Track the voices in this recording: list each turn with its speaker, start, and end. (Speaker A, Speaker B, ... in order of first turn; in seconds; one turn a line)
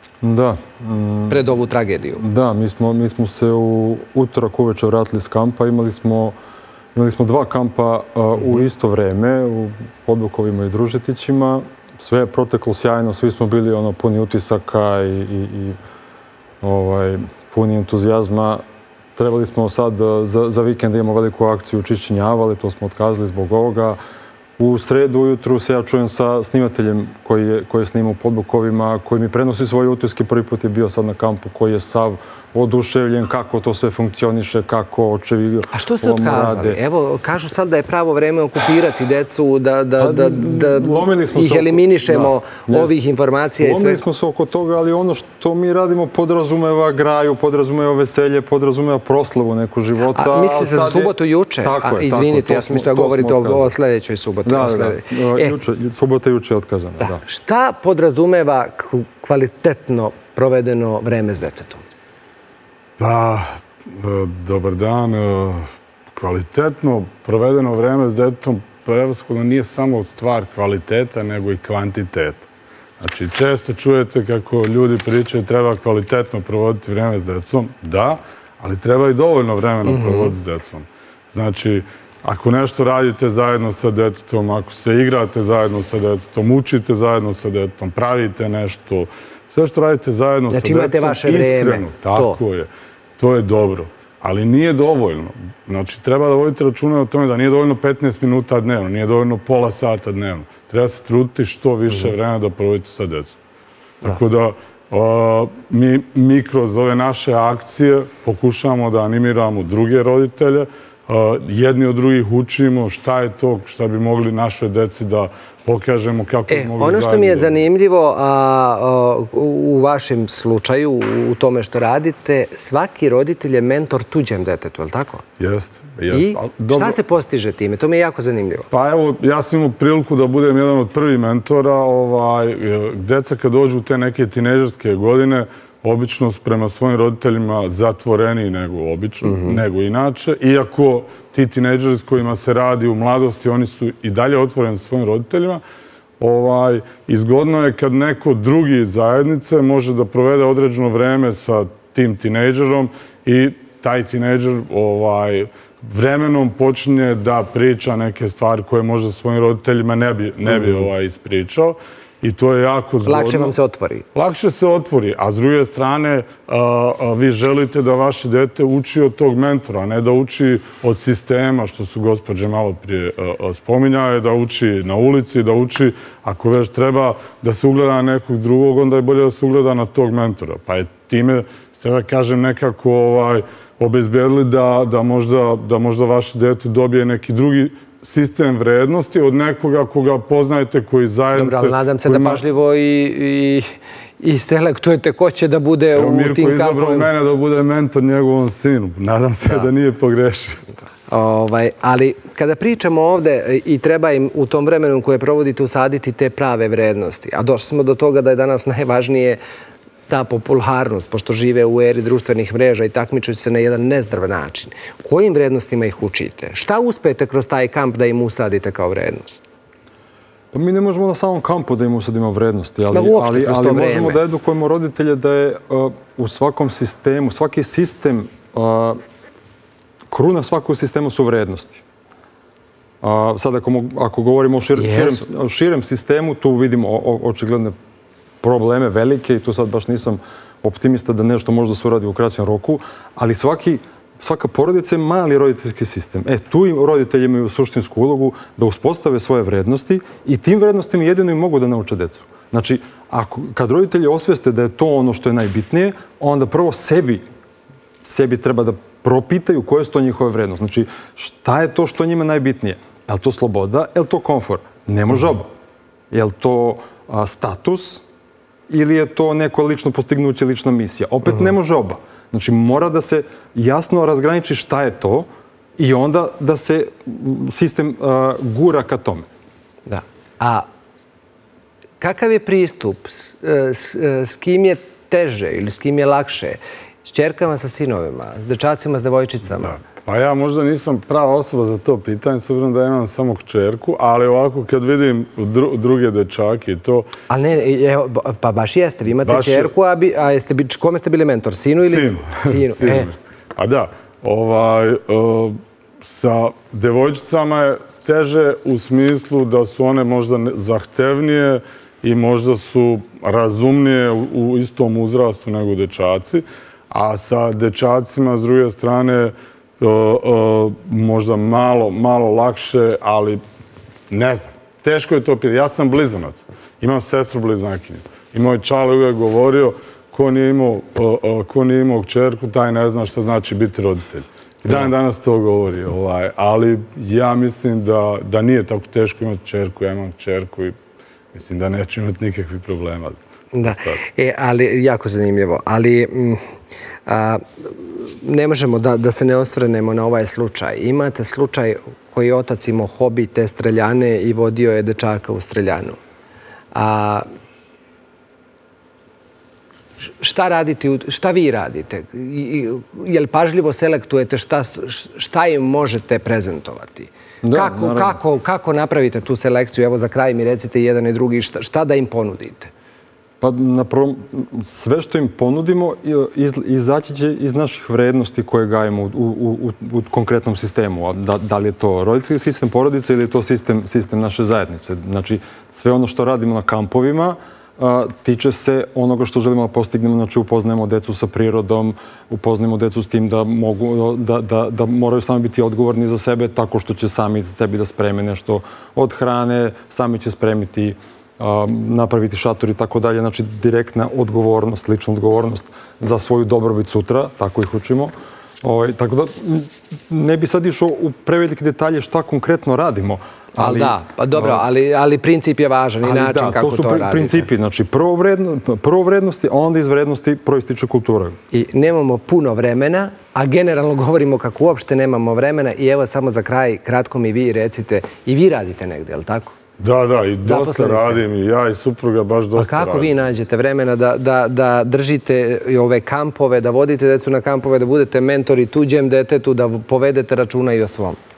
Speaker A: 0.2-1.4
Speaker B: 1.3-2.2
Speaker A: 2.2-6.3
Speaker A: 7.0-15.8
Speaker A: 16.6-18.6
Speaker A: 19.2-24.0
Speaker A: 24.6-36.8
Speaker B: 35.7-44.0
Speaker A: 40.0-43.0
Speaker A: 43.6-53.7
Speaker B: 50.1-55.6
Speaker A: 54.5-57.2
Speaker B: 57.0-61.8
Speaker C: 63.0-72.5
Speaker C: 73.0-103.4
Speaker B: 79.8-80.3
Speaker B: 90.5-92.4
Speaker C: 104.0-117.6
Speaker B: 116.5-125.2
Speaker C: 125.4-127.0
Speaker B: 126.1-128.7
Speaker C: 128.7-145.6
Speaker B: 139.2-139.6
Speaker C: 146.2-163.5
Speaker B: 160.5-160.8
Speaker B: 163.1-164.1
Speaker C: 164.2-192.4
Speaker B: 191.3-197.1
Speaker C: 196.0-200.7
Speaker B: 201.1-209.4
Speaker B: 210.1-219.4
Speaker A: 220.5-229.0
Speaker B: 222.9-224.2
Speaker A: 230.1-231.8
Speaker A: 233.0-237.8
Speaker B: 234.8-235.2
Speaker A: 238.4-257.2
Speaker A: 258.0-265.5
Speaker A: 266.1-268.0
Speaker A: 268.7-279.3
Speaker B: 279.9-280.7
Speaker B: 282.0-289.8
Speaker C: 289.6-297.1
Speaker B: 297.3-303.1
Speaker C: 299.2-299.7
Speaker C: 301.8-323.4
Speaker C: 324.1-340.7
Speaker C: 341.3-344.0
Speaker B: 343.5-346.4
Speaker B: 347.1-356.0
Speaker B: 356.7-357.2
Speaker B: 360.0-372.7
Speaker A: 367.4-368.2
Speaker A: 373.4-414.6
Speaker B: 413.6-417.5
Speaker A: 416.0-421.4
Speaker B: 421.5-429.6
Speaker C: 429.8-433.2
Speaker B: 430.4-431.2
Speaker B: 432.6-441.2